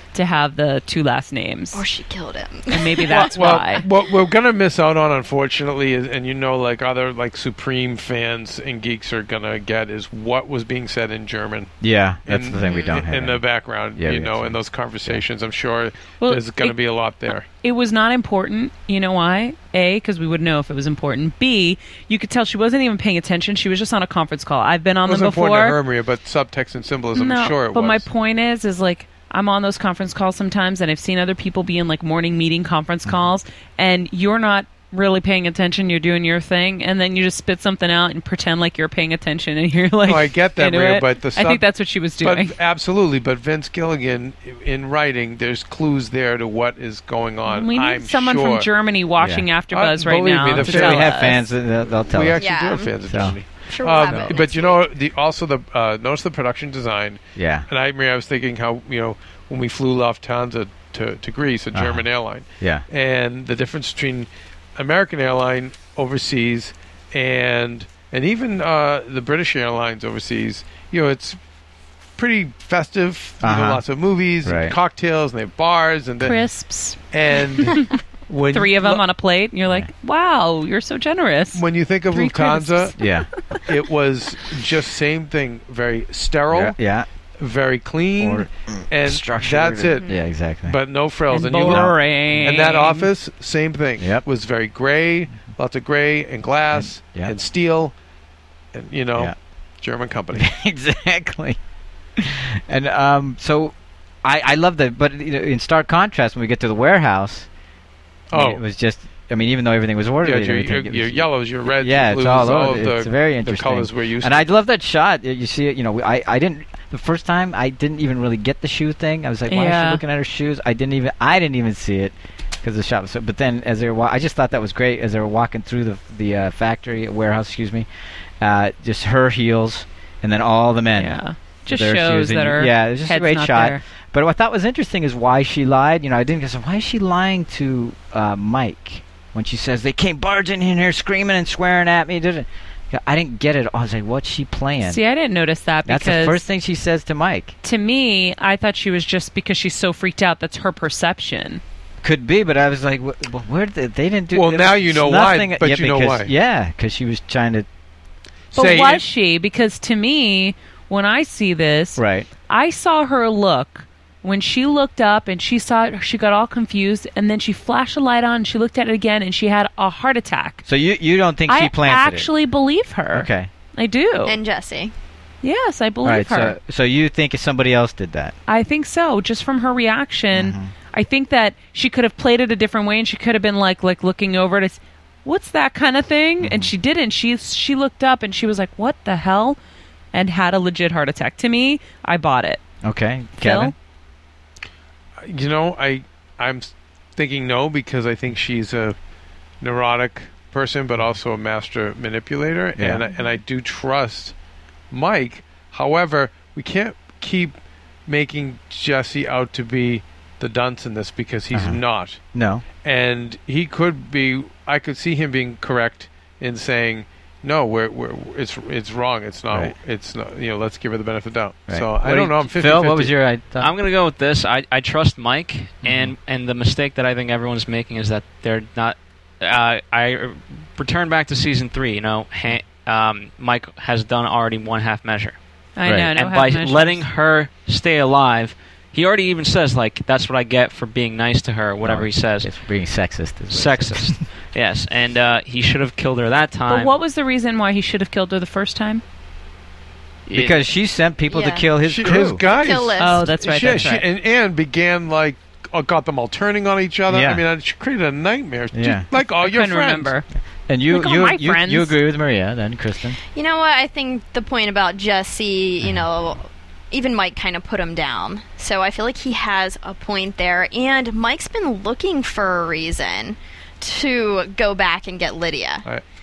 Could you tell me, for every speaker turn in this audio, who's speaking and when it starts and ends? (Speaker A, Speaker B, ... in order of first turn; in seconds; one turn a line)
Speaker A: 0.1-1.8
Speaker B: 1.7-3.5
Speaker A: 2.7-3.8
Speaker C: 3.1-11.7
Speaker D: 11.8-13.4
Speaker C: 12.3-17.5
Speaker B: 12.7-13.0
Speaker D: 14.0-15.2
Speaker A: 16.2-16.8
Speaker A: 17.3-25.8
Speaker C: 25.1-28.1
Speaker A: 27.1-42.5
Speaker C: 40.0-41.7
Speaker C: 42.2-48.7
Speaker A: 47.5-51.5
Speaker D: 49.2-49.5
Speaker C: 49.7-51.4
Speaker D: 50.6-53.4
Speaker C: 52.1-71.4
Speaker B: 52.4-54.8
Speaker D: 54.0-54.3
Speaker D: 57.4-57.7
Speaker D: 61.7-62.1
Speaker D: 62.6-62.9
Speaker C: 72.2-76.4
Speaker D: 73.4-73.9
Speaker D: 74.4-74.8
Speaker A: 76.2-77.0
Speaker C: 77.1-79.0
Speaker A: 77.6-78.0
Speaker A: 78.5-83.1
Speaker C: 81.5-83.0
Speaker D: 83.0-83.3
Speaker C: 83.7-86.8
Speaker D: 86.5-87.1
Speaker C: 87.4-90.1
Speaker D: 88.2-90.8
Speaker C: 90.6-97.9
Speaker A: 91.3-93.1
Speaker D: 91.6-91.9
Speaker D: 94.0-94.2
Speaker D: 96.7-97.3
Speaker C: 98.7-100.5
Speaker D: 100.3-101.6
Speaker D: 102.2-107.5
Speaker C: 108.3-108.6
Speaker D: 108.3-111.3
Speaker C: 110.2-114.5
Speaker D: 111.8-127.9
Speaker A: 119.5-120.0
Speaker D: 128.4-145.0
Speaker A: 131.0-133.8
Speaker A: 144.8-146.4
Speaker D: 145.8-147.6
Speaker A: 147.6-151.6
Speaker D: 152.0-157.7
Speaker C: 154.3-156.3
Speaker C: 158.5-159.0
Speaker A: 158.6-170.6
Speaker D: 162.0-162.3
Speaker D: 170.7-172.3
Speaker A: 171.5-174.4
Speaker D: 173.1-173.5
Speaker B: 174.2-174.9
Speaker A: 175.4-176.6
Speaker D: 176.0-178.3
Speaker A: 178.5-189.6
Speaker D: 180.3-180.7
Speaker D: 186.4-186.7
Speaker A: 190.1-192.6
Speaker D: 192.8-193.7
Speaker A: 193.4-193.7
Speaker C: 195.2-199.0
Speaker C: 199.6-204.3
Speaker D: 202.8-203.1
Speaker C: 204.9-207.5
Speaker C: 208.1-212.2
Speaker D: 211.5-211.8
Speaker D: 212.3-212.7
Speaker C: 212.8-223.1
Speaker D: 221.7-223.7
Speaker E: 223.6-235.4
Speaker D: 225.8-226.2
Speaker A: 235.8-237.0
Speaker D: 235.8-236.1
Speaker E: 236.1-242.5
Speaker D: 241.8-244.2
Speaker E: 243.5-246.9
Speaker A: 246.7-249.0
Speaker E: 250.3-250.6
Speaker D: 250.3-252.4
Speaker B: 251.3-251.7
Speaker C: 251.8-260.1
Speaker B: 252.5-253.3
Speaker A: 253.0-254.1
Speaker D: 257.1-257.4
Speaker D: 258.7-259.1
Speaker A: 259.4-260.3
Speaker D: 260.7-263.2
Speaker A: 260.9-262.0
Speaker B: 263.3-275.9